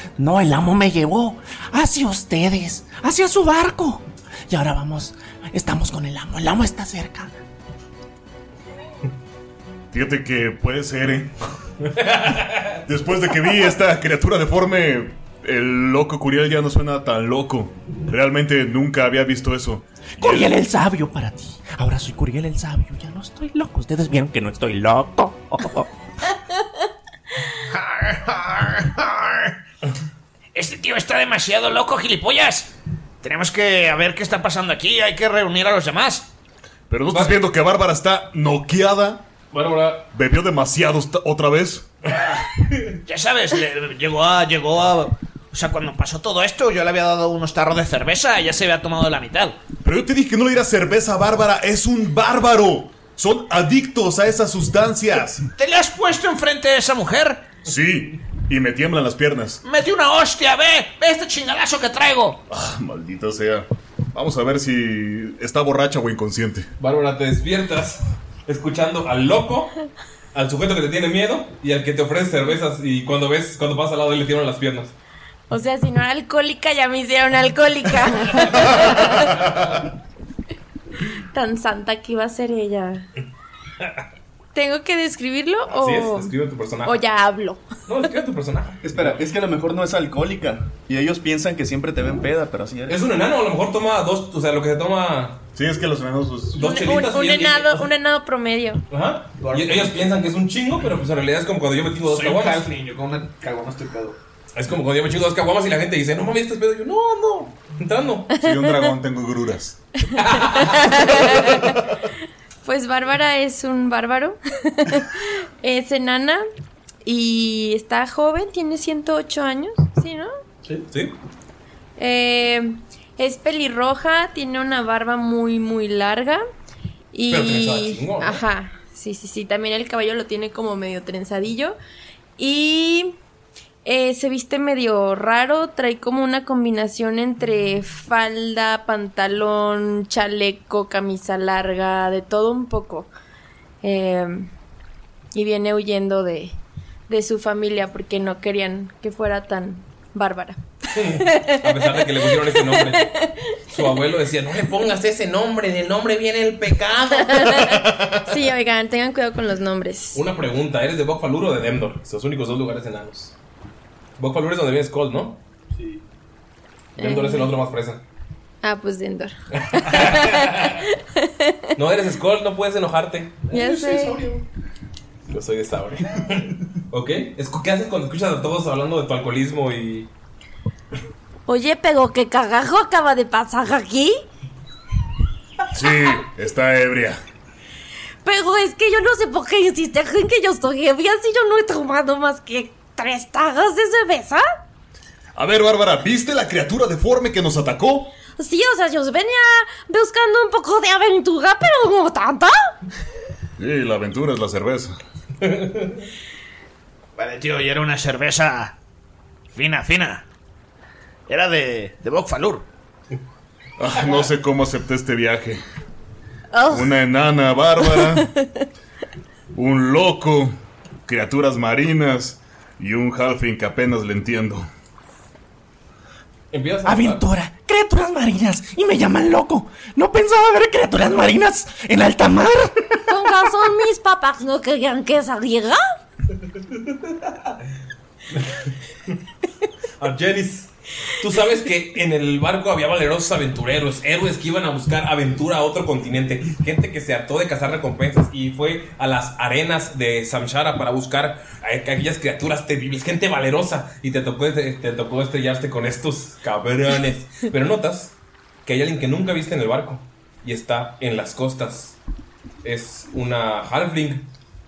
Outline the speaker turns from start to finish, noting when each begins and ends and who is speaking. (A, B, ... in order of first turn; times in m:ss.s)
0:00.2-0:07.4 A
0:09.9-0:11.4 B
0:11.9-0:12.8 C
0:12.7-0:20.4 B
0:20.2-0:25.9 A
0:27.7-0:29.5 D
0:30.6-0:36.3 D
0:36.9-0:39.2 B
0:37.1-0:37.4 C
0:39.5-0:40.1 C
0:40.1-0:41.9 B
0:43.0-0:49.6 D
0:49.8-0:55.5 B
0:55.6-0:57.5 D
0:57.6-0:59.6 B
0:59.6-1:02.4 D
1:02.5-1:06.7 B
1:06.8-1:09.8 C
1:10.3-1:14.9 C
1:15.5-1:19.6 E
1:18.5-1:18.7 C
1:21.3-1:23.1 E
1:24.5-1:26.3 E
1:25.7-1:27.0 C
1:26.8-1:27.6 E
1:27.9-1:29.2 C
1:28.8-1:33.0 F
1:32.9-1:35.4 C
1:35.6-1:36.6 B
1:36.5-1:37.9 C
1:36.6-1:38.8 E
1:38.9-1:42.7 C
1:39.4-1:40.1 G
1:42.0-1:44.2 G
1:44.6-1:48.3 C
1:48.4-1:49.8 B
1:48.4-1:48.9 E
1:50.2-1:51.4 C
1:50.4-1:51.8 E
1:51.4-1:51.7 B
1:52.6-1:56.4 E
1:57.0-2:00.3 E
2:00.9-2:01.2 C
2:02.0-2:06.4 E
2:07.1-2:11.8 E
2:07.3-2:08.4 C
2:12.4-2:13.2 E
2:13.8-2:23.1 E
2:23.8-2:24.5 E
2:25.3-2:26.6 E
2:27.1-2:30.6 E
2:30.9-2:33.1 C
2:31.1-2:33.6 E
2:33.7-2:37.8 C
2:37.2-2:40.2 E
2:40.1-2:43.4 C
2:44.2-2:45.4 C
2:45.7-2:46.0 G
2:47.0-2:48.0 C
2:47.0-2:47.5 E
2:48.6-2:51.6 E
2:49.6-2:50.8 C
2:51.8-2:53.4 C
2:53.5-2:54.4 G
2:53.5-2:54.3 E
2:55.3-3:00.1 C
3:01.5-3:04.2 E
3:05.7-3:07.2 B
3:08.2-3:14.4 E
3:15.4-3:18.2 B
3:18.4-3:22.5 E
3:23.6-3:25.0 B
3:25.4-3:26.1 C
3:27.2-3:28.8 D
3:29.5-3:30.2 D
3:31.3-3:32.7 D
3:33.8-3:35.6 B
3:36.5-3:36.9 E
3:36.7-3:38.3 B
3:37.9-3:38.3 E
3:39.5-3:44.7 B
3:46.5-3:47.2 C
3:46.8-3:53.0 A
3:53.1-3:55.8 E
4:00.0-4:22.0 C
4:22.6-4:24.3 C